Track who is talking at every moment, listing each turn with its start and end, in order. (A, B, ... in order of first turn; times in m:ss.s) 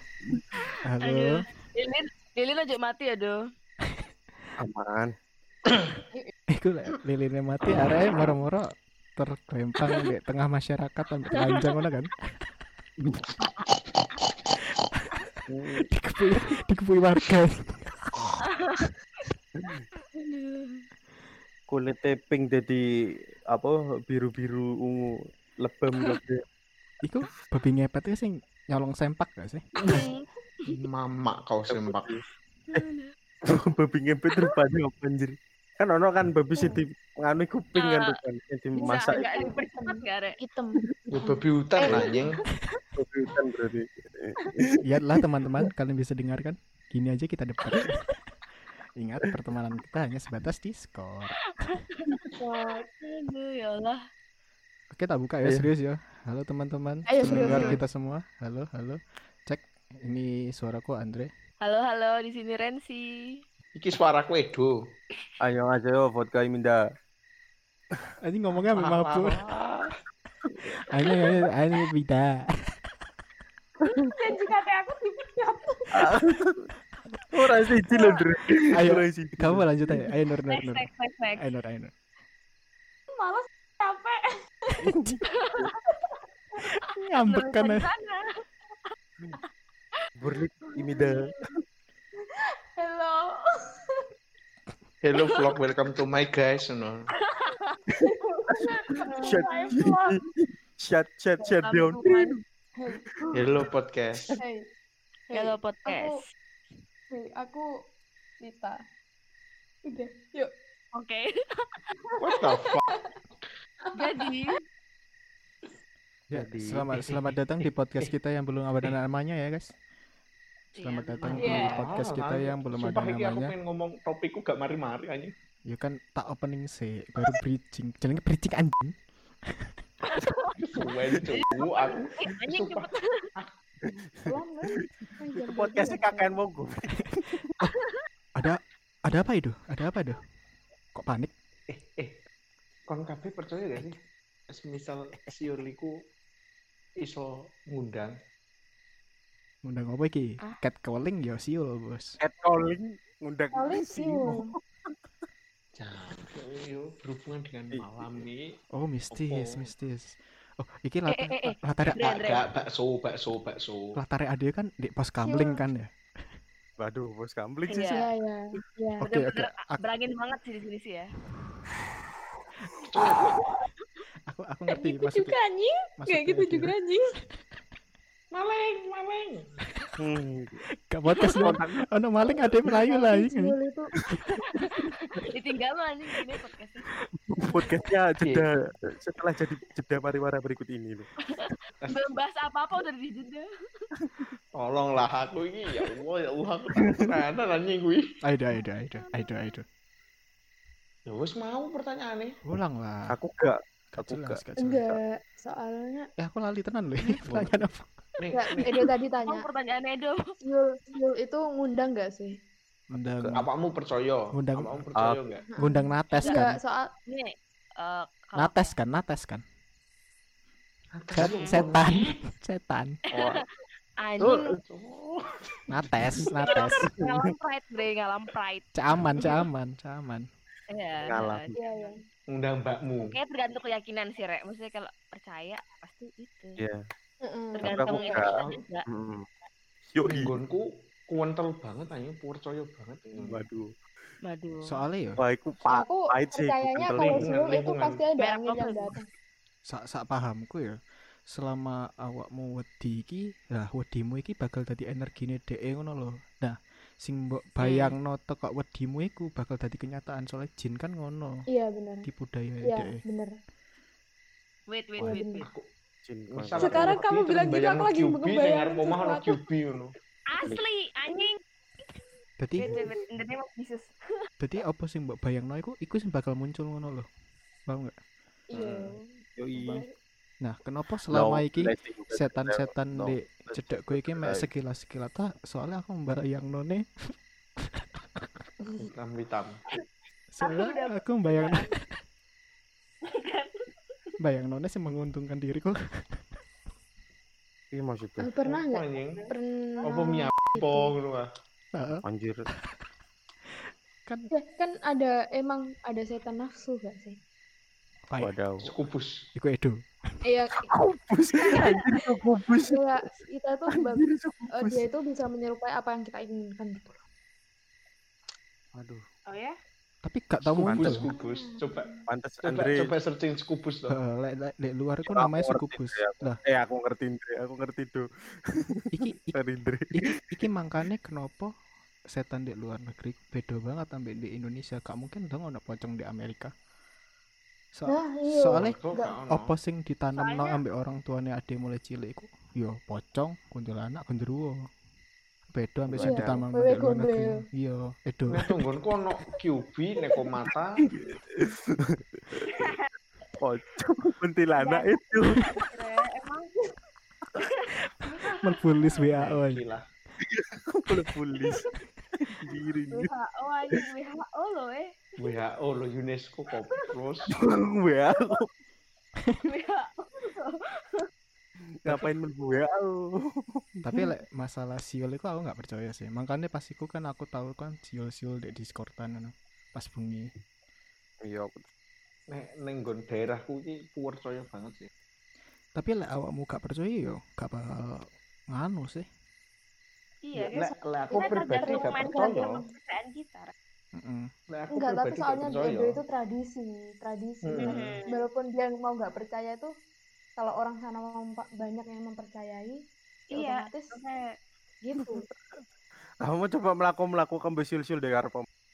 0:00.8-0:01.4 A
0:01.0-0:03.4 B
0:04.6-0:05.1 C
0:06.5-0:08.6 A
0:09.2-0:12.1 A
0:13.4-0:13.7 B
0:15.0-0:15.3 A
0:15.5-0:15.9 C
0:15.9-0:18.4 A
0:18.5-0:18.8 B
0:20.2-0:20.8 B
0:21.7-0:22.8 C
0:23.5-0:26.4 C
0:27.0-0:29.6 A
0:29.8-0:30.3 B
0:30.6-0:32.1 D
0:31.7-0:32.2 C
0:32.7-0:33.1 B
0:33.5-0:39.3 C
0:37.8-0:38.2 B
0:38.8-0:42.2 E
0:38.8-0:40.4 B
0:41.1-0:42.4 D
0:41.8-0:42.2 B
0:43.0-0:44.8 C
0:44.8-0:48.0 A
0:49.0-0:51.8 A
0:51.6-0:52.2 B
0:52.4-0:52.8 E
0:52.8-0:54.0 B
0:54.9-1:01.3 A
0:57.1-0:57.8 E
0:57.3-0:57.8 C
1:01.6-1:03.0 B
1:03.8-1:04.7 D
1:05.4-1:06.8 C
1:08.2-1:09.4 A
1:08.6-1:09.9 D
1:10.9-1:12.7 A
1:14.1-1:16.2 E
1:15.9-1:16.7 C
1:17.2-1:20.0 C
1:18.7-1:21.9 A
1:20.5-1:21.4 B
1:23.1-1:24.9 E
1:25.3-1:25.7 B
1:26.6-1:27.9 A
1:27.2-1:28.4 B
1:30.2-1:31.5 C
1:30.8-1:31.2 E
1:32.8-1:33.8 E
1:35.0-1:37.0 D
1:37.3-1:37.8 B
1:38.0-1:42.3 C
1:38.0-1:40.2 E
1:38.6-1:39.8 B
1:41.4-1:42.4 B
1:42.8-1:43.3 E
1:43.1-1:43.7 C
1:43.3-1:44.3 D
1:44.4-1:44.6 E
1:45.3-1:46.2 E
1:45.3-1:46.3 B
1:47.1-1:47.7 E
1:48.4-1:48.8 E
1:49.9-1:50.5 E
1:51.0-1:52.4 B
1:52.2-1:52.9 D
1:54.0-1:54.6 B
1:56.3-1:59.7 A
1:56.3-1:56.8 C
1:57.0-1:58.1 D
2:00.8-2:01.8 B
2:00.8-2:03.5 A
2:01.3-2:05.3 D
2:05.7-2:09.8 A
2:10.1-2:10.6 B
2:10.6-2:13.5 D
2:11.3-2:13.3 B
2:13.8-2:14.3 C
2:14.2-2:16.4 E
2:15.0-2:17.5 C
2:17.2-2:17.7 A
2:18.4-2:20.2 A
2:21.0-2:21.3 A
2:21.7-2:22.2 D
2:22.9-2:24.0 D
2:24.5-2:26.0 D
2:27.0-2:28.2 D
2:29.6-2:32.2 A
2:32.2-2:35.0 C
2:33.5-2:34.5 E
2:35.8-2:38.4 D
2:37.8-2:38.2 C
2:38.8-2:42.0 A
2:39.1-2:39.7 D
2:41.1-2:42.5 B
2:41.9-2:44.0 D
2:44.0-2:45.9 A
2:45.2-2:45.6 E
2:46.8-2:48.0 C
2:47.7-2:48.1 B
2:47.9-2:49.1 E
2:49.0-2:49.8 A
2:49.0-2:51.1 B
2:52.8-2:53.4 D
2:53.0-2:53.6 B
2:54.3-2:55.4 A
2:54.7-2:57.2 E
2:56.0-2:56.8 A
2:58.3-2:59.6 D
3:00.0-3:00.6 C
3:00.9-3:03.5 A
3:01.2-3:01.8 C
3:02.3-3:03.9 E
3:04.4-3:06.9 B
3:07.2-3:11.1 C
3:08.2-3:08.5 D
3:11.3-3:13.4 B
3:11.8-3:12.1 D
3:14.6-3:18.0 D
3:18.2-3:19.6 A
3:18.9-3:19.3 B
3:21.1-3:22.4 D
3:22.5-3:23.1 A
3:23.1-3:24.4 C
3:23.9-3:24.9 A
3:24.6-3:26.1 E
3:26.2-3:28.0 A
3:27.2-3:27.5 D
3:28.2-3:28.7 D
3:28.3-3:29.5 E
3:29.2-3:30.2 B
3:30.4-3:32.4 E
3:32.9-3:33.5 A
3:33.0-3:33.4 C
3:33.3-3:35.5 D
3:34.4-3:34.7 A
3:35.5-3:36.9 E
3:35.6-3:36.6 A
3:37.1-3:38.8 B
3:38.4-3:39.4 A
3:40.9-3:42.2 D
3:41.2-3:43.0 A
3:41.3-3:41.6 B
3:44.0-3:44.6 B
3:44.2-3:44.6 C
3:44.6-3:46.3 D
3:45.7-3:46.9 A
3:46.5-3:48.7 B
3:48.8-3:50.3 A
3:50.7-3:52.0 B
3:51.1-3:51.6 C
3:51.6-3:52.0 E
3:52.3-3:53.2 D
3:53.1-3:56.6 B
3:57.2-3:57.8 E
3:57.5-3:58.9 B
3:57.6-3:58.2 C
3:58.1-3:58.6 D
3:58.9-3:59.3 C
4:00.0-4:00.3 C
4:00.0-4:03.5 D
4:03.2-4:03.7 C
4:04.2-4:04.8 B
4:04.6-4:05.2 A
4:05.2-4:07.3 C
4:05.7-4:09.1 E
4:06.9-4:08.0 D
4:08.2-4:09.0 B
4:09.7-4:10.8 A
4:11.3-4:21.4 A
4:17.6-4:17.9 B
4:21.5-4:22.1 E
4:22.0-4:22.9 A
4:22.6-4:23.3 E
4:24.7-4:25.5 B
4:25.0-4:25.4 E
4:26.0-4:27.0 C
4:26.3-4:30.0 D
4:26.6-4:29.4 E
4:30.3-4:31.4 B
4:32.4-4:32.8 A
4:32.6-4:33.9 B
4:32.6-4:32.9 E
4:34.4-4:37.1 A
4:37.7-4:38.0 A
4:38.5-4:39.9 E
4:38.6-4:39.8 C
4:40.4-4:46.9 A
4:41.1-4:44.5 C
4:47.7-4:48.4 A
4:48.8-4:49.6 D
4:50.3-4:51.8 A
4:50.4-4:51.8 B
4:53.1-4:53.7 B
4:54.2-4:56.4 A
4:57.7-4:58.3 C
4:58.2-5:00.9 E
4:58.4-4:59.3 D
4:59.8-5:01.3 D
5:01.7-5:02.0 A
5:02.0-5:02.4 C
5:04.3-5:07.2 E
5:08.2-5:08.7 C
5:08.6-5:09.2 D
5:09.4-5:10.2 A
5:10.2-5:10.7 E
5:10.7-5:13.0 C
5:12.6-5:16.9 E
5:13.7-5:14.8 C
5:18.8-5:19.0 C
5:19.3-5:19.6 B
5:20.0-5:21.1 A
5:20.6-5:21.0 C
5:20.6-5:24.0 D
5:21.1-5:22.0 E
5:22.1-5:22.9 C
5:23.9-5:26.4 A
5:25.1-5:30.0 C
5:28.9-5:31.5 A
5:32.1-5:36.5 A
5:37.7-5:38.8 A
5:37.9-5:39.2 E
5:38.6-5:39.5 D
5:39.3-5:44.5 A
5:40.2-5:40.6 B
5:45.5-5:48.5 A
5:45.9-5:46.4 C
5:46.0-5:47.4 E
5:48.3-5:50.8 D
5:50.9-5:52.7 C
5:52.5-5:52.9 B
5:53.4-5:55.5 C
5:54.6-5:56.6 B
5:57.4-5:59.0 B
5:58.4-5:59.6 A
5:59.1-5:59.8 D
6:00.2-6:01.6 C
6:02.3-6:03.1 C
6:02.9-6:05.4 B
6:05.2-6:07.3 D
6:07.3-6:08.5 C
6:09.4-6:11.1 B
6:11.8-6:13.8 C
6:13.8-6:20.3 A
6:21.2-6:21.7 C
6:22.3-6:24.9 D
6:25.8-6:29.1 A
6:30.2-6:33.5 B
6:30.3-6:32.6 D
6:31.1-6:32.6 E
6:34.0-6:34.3 A
6:34.5-6:36.0 D
6:34.7-6:39.7 E
6:37.4-6:38.0 D
6:37.6-6:38.2 B
6:40.4-6:42.8 E
6:43.3-6:44.2 B
6:43.3-6:43.9 E
6:44.8-6:45.2 E
6:45.0-6:45.6 C
6:46.2-6:48.5 C